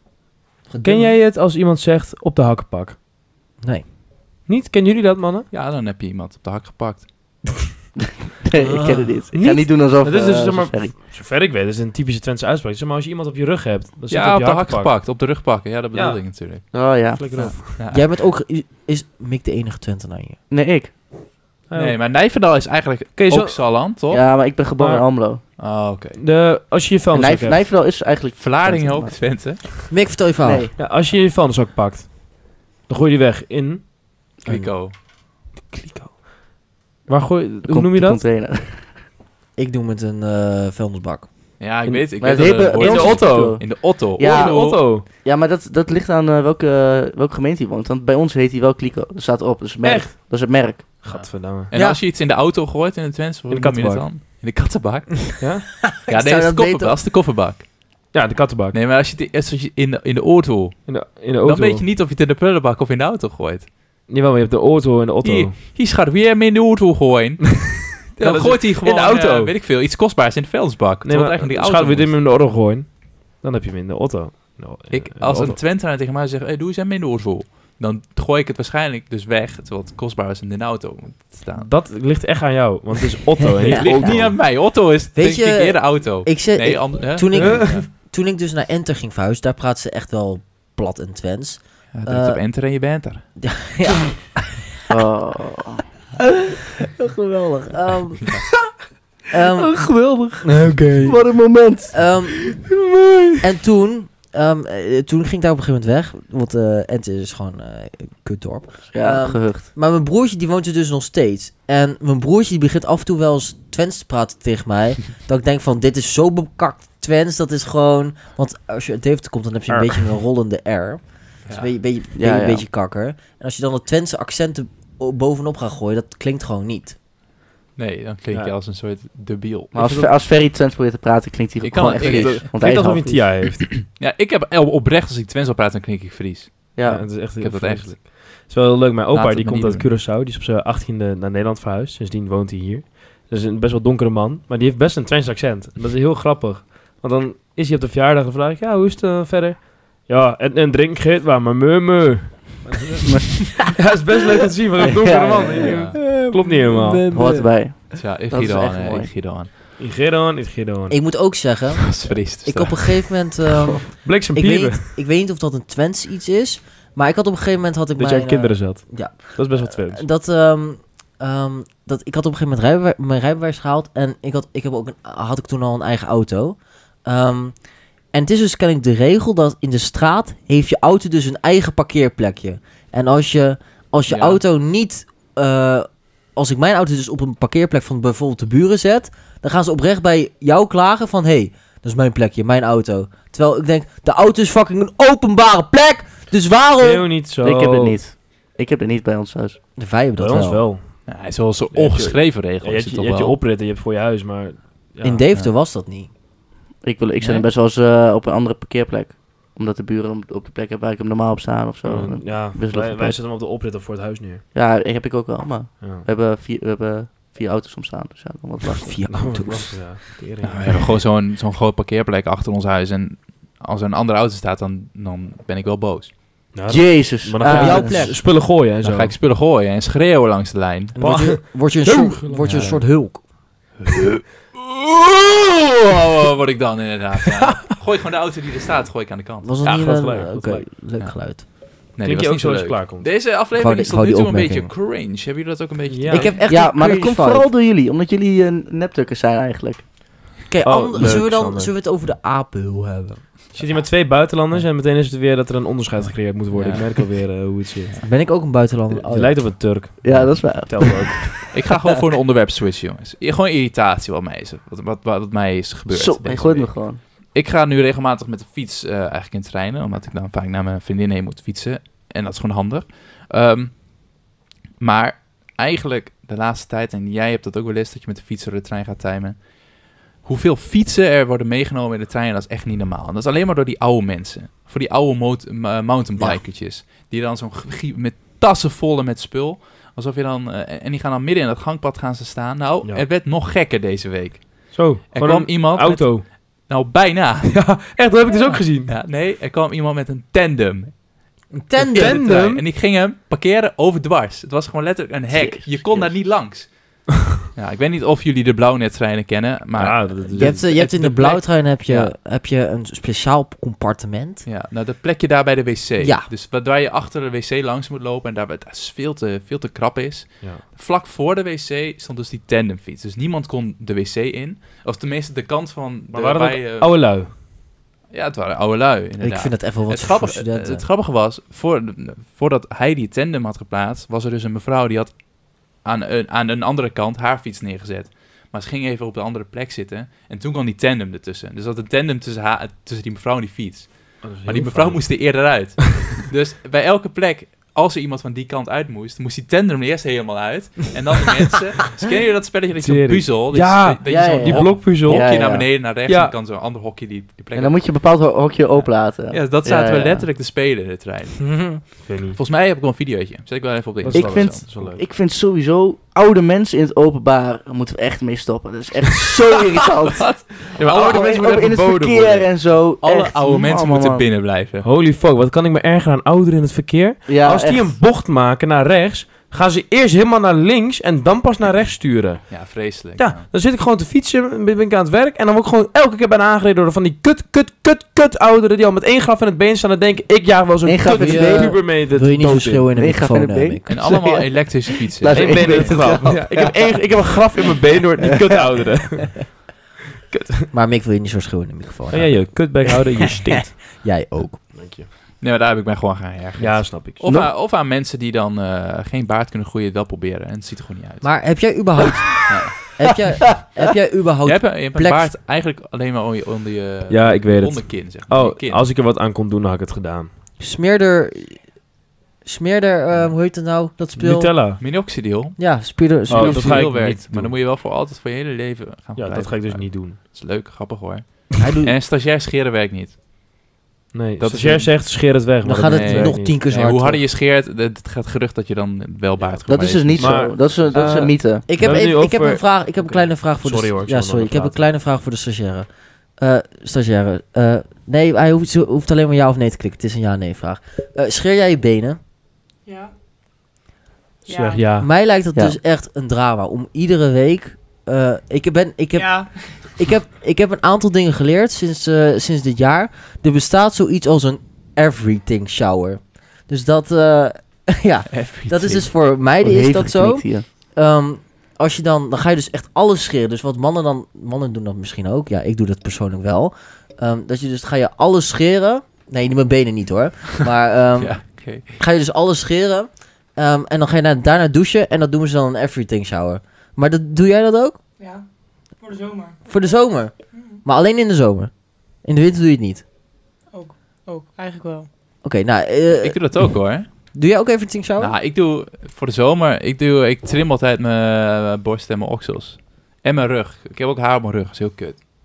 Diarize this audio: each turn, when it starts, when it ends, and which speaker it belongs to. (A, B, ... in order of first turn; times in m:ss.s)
0:00.7-0:01.2 A
0:00.8-0:03.0 B
0:04.5-0:05.5 B
0:05.5-0:07.1 C
0:08.0-0:10.9 D
0:08.6-0:09.2 A
0:09.3-0:14.9 B
0:14.1-0:16.7 C
0:15.9-0:16.2 B
0:16.7-0:17.6 D
0:17.1-0:17.7 B
0:17.4-0:18.0 C
0:17.9-0:20.4 A
0:20.5-0:20.9 D
0:21.7-0:22.0 B
0:21.7-0:24.2 C
0:23.2-0:23.6 B
0:24.1-0:25.4 D
0:24.8-0:25.0 B
0:25.6-0:26.2 C
0:26.2-0:27.6 B
0:27.1-0:29.2 D
0:28.4-0:29.7 C
0:29.9-0:30.7 A
0:30.4-0:30.8 D
0:30.8-0:33.8 B
0:34.4-0:34.9 C
0:35.7-0:36.2 B
0:37.1-0:38.2 B
0:37.7-0:38.9 D
0:39.6-0:41.3 A
0:41.6-0:44.8 C
0:41.9-0:50.9 D
0:42.8-0:45.0 B
0:49.8-0:50.2 B
0:51.0-0:51.7 B
0:51.1-0:55.3 C
0:51.7-0:52.0 A
0:53.5-0:54.1 B
0:55.4-0:55.7 B
0:55.9-0:57.0 A
0:56.1-0:57.7 C
0:58.1-0:58.8 B
0:58.7-1:03.7 C
1:00.9-1:01.8 B
1:04.1-1:05.6 B
1:05.2-1:12.1 C
1:08.2-1:09.5 B
1:11.0-1:15.6 B
1:14.9-1:21.7 C
1:21.6-1:24.4 B
1:23.6-1:27.9 C
1:23.6-1:24.4 A
1:25.2-1:32.4 A
1:27.4-1:27.7 B
1:31.9-1:33.2 C
1:33.4-1:34.6 A
1:34.9-1:35.8 D
1:36.4-1:37.2 D
1:37.1-1:38.3 A
1:39.3-1:39.8 A
1:39.5-1:42.0 D
1:40.4-1:41.2 B
1:41.9-1:42.6 A
1:42.8-1:43.3 B
1:43.4-2:07.0 A
1:48.9-1:49.7 D
1:59.7-2:00.0 B
2:02.2-2:02.6 D
2:07.8-2:09.8 C
2:09.7-2:13.3 D
2:09.8-2:10.1 B
2:11.6-2:12.5 C
2:12.0-2:13.7 B
2:13.6-2:18.1 C
2:16.8-2:17.1 D
2:16.9-2:37.4 B
2:19.1-2:19.9 C
2:34.8-2:35.8 D
2:35.6-2:36.0 C
2:37.1-2:39.1 D
2:37.1-2:37.4 A
2:37.9-2:39.5 C
2:39.8-2:41.0 B
2:40.9-2:57.6 A
2:41.8-2:43.3 C
2:44.0-2:45.0 B
2:48.0-2:50.0 B
2:58.1-3:17.1 A
3:04.1-3:04.4 C
3:16.8-3:18.0 B
3:17.4-3:19.6 D
3:19.8-3:20.6 A
3:20.2-3:21.1 B
3:21.1-3:23.4 C
3:21.7-3:25.3 B
3:25.0-3:26.1 A
3:26.8-3:33.2 D
3:27.2-3:27.4 C
3:31.8-3:34.4 B
3:34.5-3:39.1 D
3:35.8-3:36.1 B
3:38.7-3:39.8 A
3:39.1-3:41.0 B
3:40.4-3:46.4 C
3:46.5-3:49.2 B
3:46.7-3:48.1 D
3:47.4-3:48.2 A
3:48.8-3:51.0 C
3:51.0-3:53.2 A
3:51.0-3:52.8 B
3:52.4-3:52.7 C
3:53.8-4:00.1 C
3:59.4-4:01.4 A
3:59.7-4:00.6 B
4:01.9-4:06.4 C
4:02.0-4:03.1 B
4:03.6-4:04.7 A
4:05.9-4:06.3 B
4:06.1-4:07.5 A
4:06.5-4:09.9 D
4:10.5-4:13.2 A
4:10.6-4:11.7 B
4:13.6-4:18.0 B
4:16.5-4:17.0 C
4:18.0-4:19.6 A
4:18.9-4:21.3 B
4:20.0-4:21.5 D
4:21.5-4:33.8 C
4:25.9-4:27.0 D
4:34.8-4:39.5 C
4:40.2-4:57.8 C
4:54.7-4:56.3 B
4:57.5-4:58.9 B
4:58.4-5:01.0 C
5:01.5-5:02.2 A
5:01.8-5:12.1 C
5:01.9-5:02.6 B
5:05.3-5:06.2 D
5:09.8-5:10.7 B
5:10.4-5:14.4 A
5:14.4-5:27.2 C
5:16.0-5:16.3 A
5:26.1-5:27.3 B
5:28.1-5:57.9 C
5:29.2-5:30.8 A
5:44.2-5:45.2 B
5:52.8-5:55.3 B
5:54.1-5:55.7 D
5:56.1-5:56.3 B
5:57.6-6:00.3 D
5:58.8-6:04.7 C
6:01.4-6:01.8 A
6:02.0-6:02.4 B
6:04.0-6:05.0 B
6:04.1-6:14.2 D
6:10.2-6:11.3 C
6:10.7-6:12.5 B
6:13.0-6:14.9 C
6:14.8-6:22.6 B
6:17.3-6:18.0 D
6:22.5-6:23.5 C
6:23.2-6:32.9 B
6:30.9-6:31.8 D
6:31.2-6:34.0 A
6:33.0-6:37.0 D
6:33.9-6:36.2 C
6:35.3-6:39.6 B
6:40.3-6:40.7 B
6:40.7-6:42.7 A
6:42.1-6:43.8 B
6:43.4-6:44.8 A
6:44.7-6:45.1 B
6:45.4-6:51.3 C
6:46.6-6:47.2 B
6:51.2-6:55.3 A
6:52.5-6:52.8 C
6:54.4-6:58.9 C
6:57.1-7:00.3 B
7:00.6-7:01.6 A
7:02.4-7:04.5 A
7:04.2-7:04.8 B
7:04.8-7:05.6 C
7:05.6-7:06.9 A
7:06.3-7:07.5 B
7:06.3-7:13.2 C
7:09.2-7:10.2 B
7:11.6-7:11.9 A
7:14.1-7:16.6 B
7:14.4-7:15.0 C
7:15.6-7:17.2 A
7:15.8-7:20.6 C
7:19.7-7:21.7 D
7:20.2-7:24.8 B
7:21.7-7:32.2 A
7:32.9-7:33.1 E
7:34.5-7:34.8 E
7:34.5-7:35.1 B
7:35.0-8:01.4 A
7:39.2-7:39.5 E
7:48.3-7:49.1 C
7:49.6-7:50.7 D
8:01.2-8:02.0 C
8:02.0-8:08.0 A
8:08.2-8:08.4 E
8:09.0-8:09.6 E
8:09.7-8:11.7 A
8:10.5-8:10.8 E
8:12.2-8:13.0 A
8:13.7-8:15.1 E
8:15.4-8:16.4 A
8:16.2-8:17.1 C
8:17.3-8:18.4 A
8:18.2-8:25.2 C